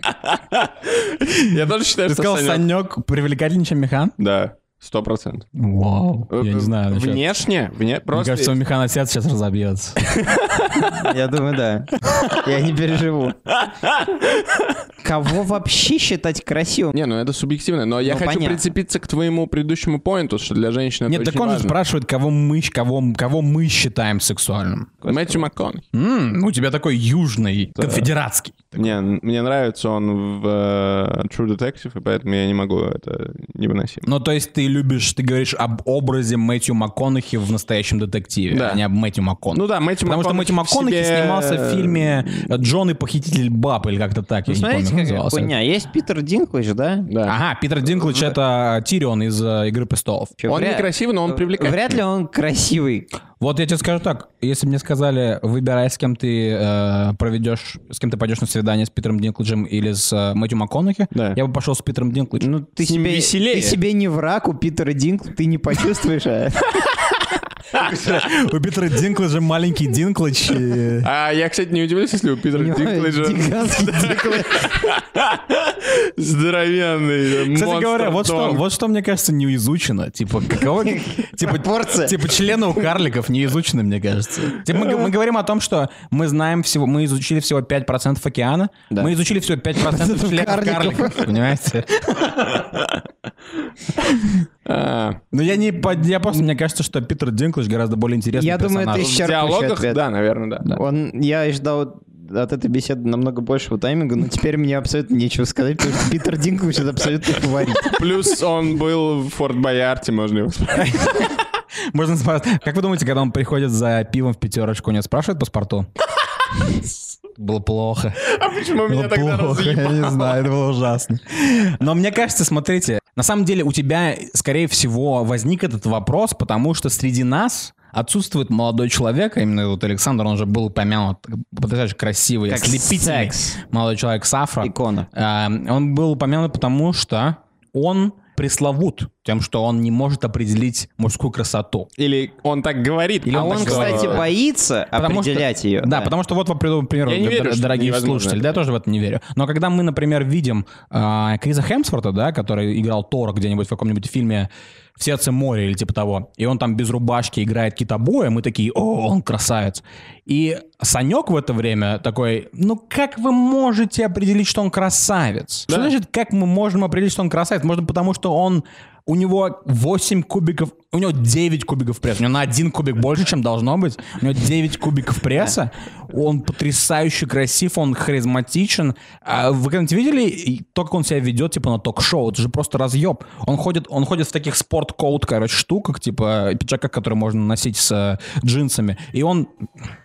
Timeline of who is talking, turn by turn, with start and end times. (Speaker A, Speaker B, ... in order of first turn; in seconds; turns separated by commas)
Speaker A: 0.6-2.7, Speaker B: 2.0-4.1, Speaker A: 4.2-5.4, Speaker B: 5.5-7.2, Speaker A: 6.3-8.5, Speaker B: 8.1-10.3, Speaker C: 10.8-13.4, Speaker A: 13.9-14.4, Speaker C: 15.0-16.9, Speaker A: 16.9-21.7, Speaker C: 18.0-18.7, Speaker B: 21.1-24.9, Speaker C: 25.0-25.4, Speaker A: 25.1-25.8, Speaker B: 25.9-28.9, Speaker A: 27.8-28.1, Speaker A: 28.8-34.0, Speaker B: 34.0-45.5, Speaker A: 38.5-38.8, Speaker A: 39.5-42.5, Speaker C: 44.5-47.1, Speaker A: 47.1-47.4, Speaker B: 47.2-50.4, Speaker C: 50.4-53.1, Speaker A: 50.5-52.0, Speaker B: 53.4-62.5, Speaker A: 61.1-61.4, Speaker C: 62.4-66.9, Speaker A: 62.8-63.8, Speaker B: 67.7-71.1, Speaker A: 71.0-78.6, Speaker C: 72.5-74.8, Speaker B: 77.5-92.7, Speaker C: 80.8-82.2, Speaker C: 89.8-91.3, Speaker A: 94.7-95.2, Speaker B: 95.3-99.1, Speaker C: 98.3-100.0, Speaker A: 98.9-100.7, Speaker C: 100.7-108.0, Speaker A: 107.8-111.0, Speaker B: 110.7-115.9, Speaker B: 117.3-118.3, Speaker A: 118.2-120.4, Speaker B: 118.8-141.9, Speaker C: 132.5-133.6, Speaker C: 134.6-135.1, Speaker A: 142.0-144.3, Speaker B: 143.2-144.3, Speaker C: 143.3-146.1, Speaker B: 144.9-189.5, Speaker A: 147.1-148.4